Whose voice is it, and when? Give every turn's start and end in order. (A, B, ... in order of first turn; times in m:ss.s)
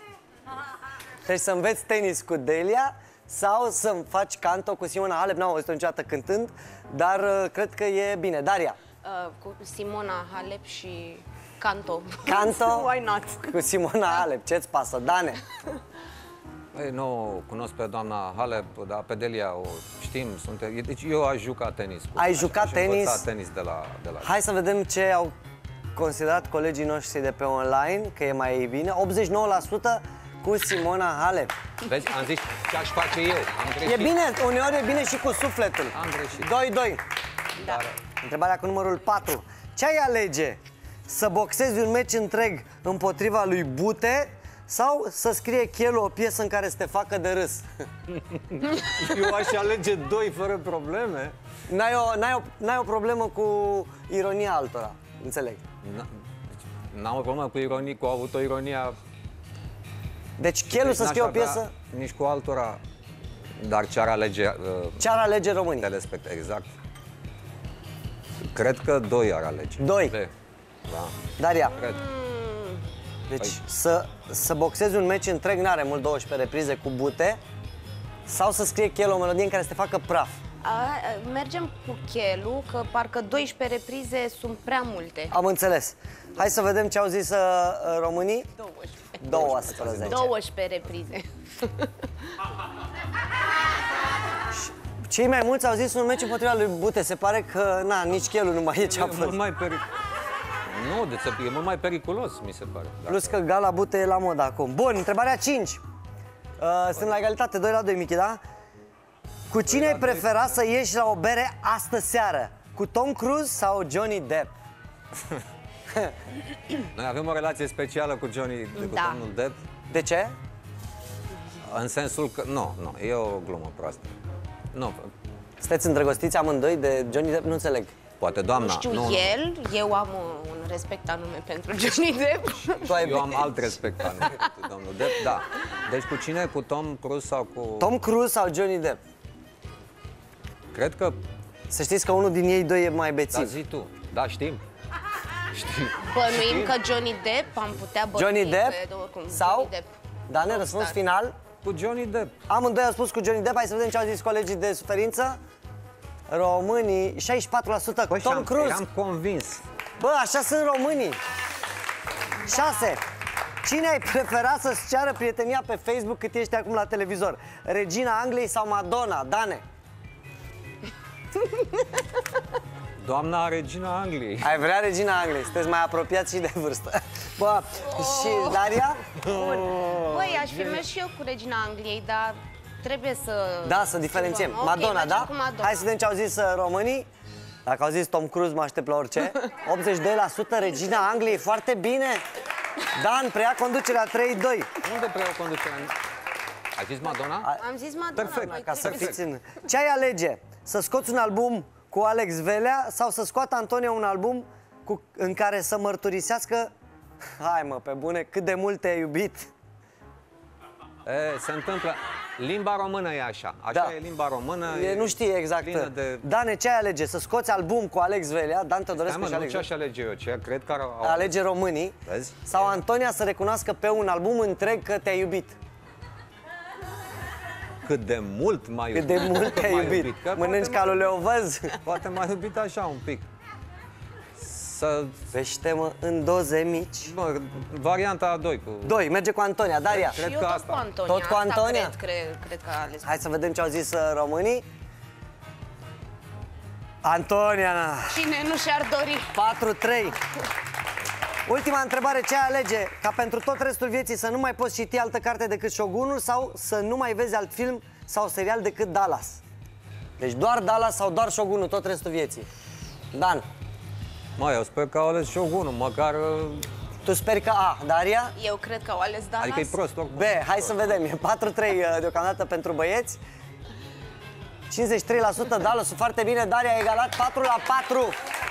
0:01.2-0:08.8 A
0:09.0-0:13.6 B
0:12.2-0:12.9 A
0:13.4-0:15.4 A
0:16.7-0:24.3 C
0:22.2-0:23.3 A
0:24.2-0:25.3 A
0:26.0-0:31.5 A
0:31.8-0:34.2 C
0:33.8-0:37.0 A
0:35.9-0:36.5 C
0:37.6-0:38.0 C
0:38.2-0:47.7 A
0:48.1-0:51.4 C
0:51.7-0:55.6 A
0:55.8-0:56.1 C
0:56.9-0:59.0 C
1:00.4-1:01.7 A
1:00.7-1:02.8 C
1:03.6-1:05.0 C
1:05.0-1:05.9 A
1:05.8-1:06.7 C
1:08.5-1:10.3 C
1:09.8-1:10.2 A
1:10.9-1:12.0 C
1:11.4-1:11.8 A
1:11.8-1:12.8 B
1:13.3-1:17.4 A
1:18.3-1:20.4 A
1:20.6-1:25.3 B
1:25.3-1:28.5 A
1:28.6-1:29.2 B
1:29.2-1:30.3 A
1:29.3-1:30.3 C
1:30.0-1:31.9 B
1:34.5-1:39.4 A
1:38.8-1:39.9 C
1:40.7-1:43.4 C
1:43.1-1:45.8 A
1:46.6-1:48.4 A
1:49.5-1:54.5 A
1:49.6-1:50.4 C
1:56.9-1:59.6 C
1:58.8-1:59.2 B
1:59.9-2:00.4 A
2:01.7-2:04.2 C
2:04.7-2:05.1 C
2:05.6-2:07.9 A
2:08.2-2:09.4 C
2:08.6-2:14.5 B
2:12.8-2:17.9 C
2:12.8-2:13.5 A
2:17.8-2:19.0 A
2:20.7-2:21.2 C
2:21.7-2:23.6 A
2:23.3-2:24.6 C
2:25.5-2:26.8 C
2:26.0-2:29.9 B
2:28.2-2:28.8 A
2:29.3-2:29.7 A
2:30.3-2:31.3 A
2:30.4-2:31.0 B
2:31.6-2:32.3 C
2:32.5-2:35.4 A
2:36.3-2:38.8 A
2:38.1-2:39.6 C
2:40.0-2:41.2 A
2:42.4-2:43.0 A
2:43.6-2:49.6 A
2:51.4-2:52.0 B
2:53.0-2:54.6 C
2:54.4-2:59.0 A
2:57.8-2:58.7 B
2:59.2-3:00.9 C
2:59.2-3:05.8 B
3:03.6-3:07.1 A
3:07.7-3:12.2 A
3:13.0-3:14.7 A
3:14.8-3:15.9 C
3:16.8-3:17.5 C
3:17.6-3:19.2 B
3:18.1-3:19.2 C
3:18.2-3:26.7 A
3:27.4-3:29.5 A
3:31.0-3:36.2 C
3:34.6-3:39.7 A
3:39.0-3:41.3 C
3:41.0-3:45.6 A
3:42.0-3:42.8 C
3:47.8-3:50.8 C
3:48.9-3:51.8 A
3:51.8-3:53.3 C
3:54.4-3:55.2 C
3:55.3-3:57.1 A
3:57.0-3:59.0 C
3:58.8-4:00.2 A
3:59.9-4:00.8 C
4:00.2-4:03.1 B
4:01.1-4:01.9 A
4:03.0-4:04.6 A
4:07.0-4:08.2 A
4:08.1-4:09.4 B
4:09.3-4:10.2 A
4:11.5-4:19.4 A
4:20.2-4:22.5 A
4:23.1-4:23.4 A
4:24.4-4:26.7 C
4:27.0-4:28.3 A
4:28.4-4:29.8 B
4:29.4-4:31.0 C
4:30.1-4:33.2 A
4:34.7-4:38.2 A